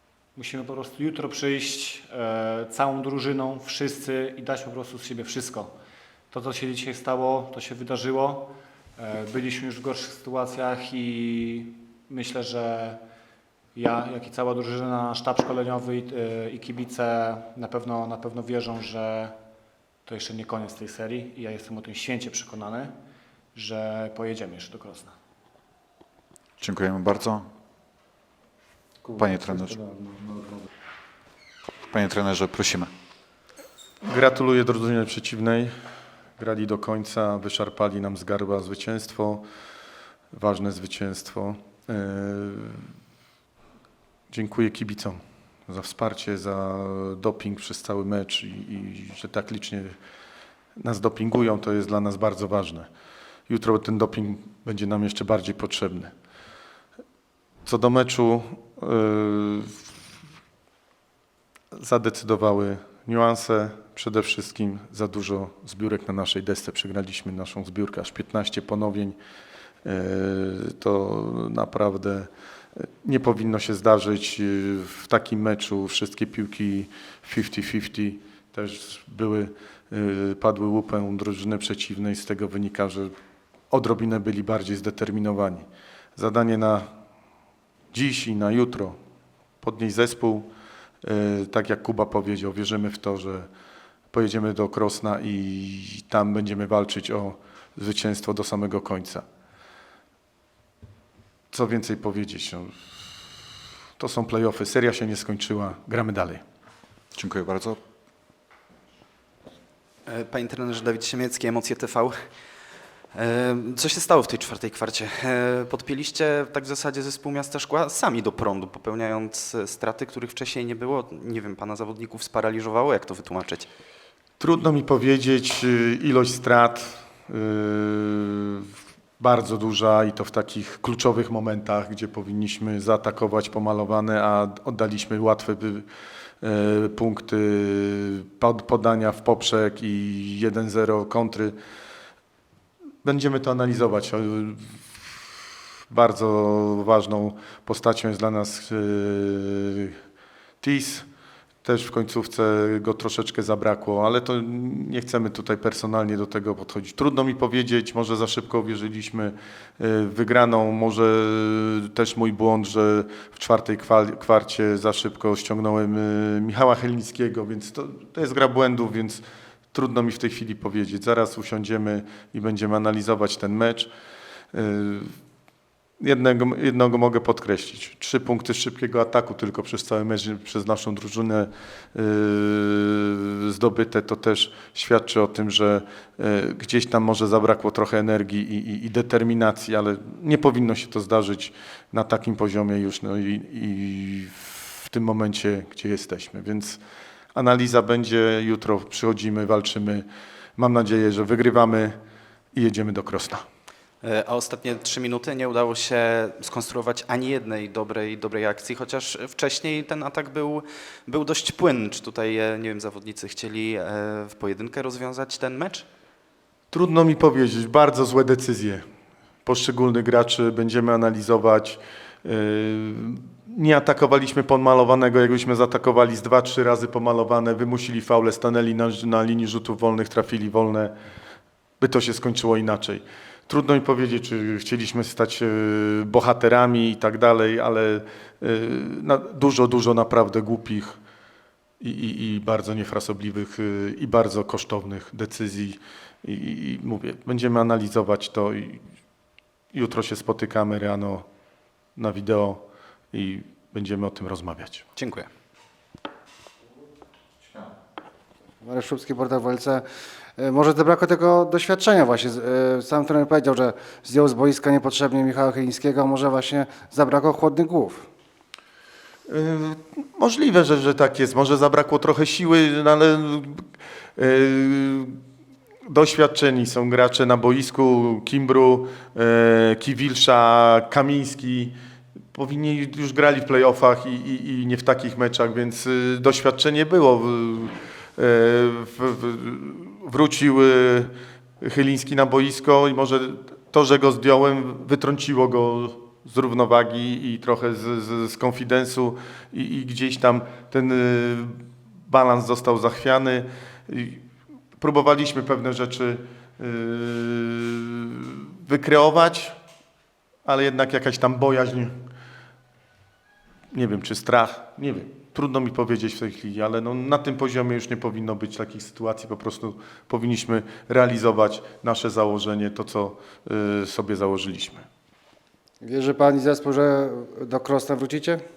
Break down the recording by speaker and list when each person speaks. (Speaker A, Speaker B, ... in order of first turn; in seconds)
Speaker A: 0.4-5.8, 6.3-13.0, 13.7-19.4, 20.1-22.9, 23.6-25.1
Speaker B: 26.6-27.5, 29.1-30.0, 31.9-32.9, 107.2-107.8
Speaker C: 34.0-35.7, 36.4-39.5, 40.3-42.9, 44.3-50.0, 50.8-52.9, 53.5-56.1, 57.6-59.8, 61.7-69.2, 69.8-83.2, 83.7-86.9, 87.9-89.0, 89.6-93.5, 94.1-99.2, 101.5-103.3, 104.0-106.4, 124.4-135.9, 136.4-141.6, 143.0-145.3, 145.9-150.0, 150.6-151.1, 151.6-173.9, 174.5-175.2, 176.0-196.8, 197.3-202.0, 202.5-203.4, 216.7-218.8, 219.4-230.9, 231.8-241.0, 241.8-248.8, 249.7-251.2, 252.0-254.9, 269.3-275.2, 275.9-281.8, 282.3-304.3, 304.8-309.6, 310.4-312.0, 313.7-324.9
Speaker D: 110.1-112.2, 113.2-123.7, 204.0-215.8, 255.0-255.3
Speaker E: 258.6-259.8, 260.4-268.1, 325.8-328.4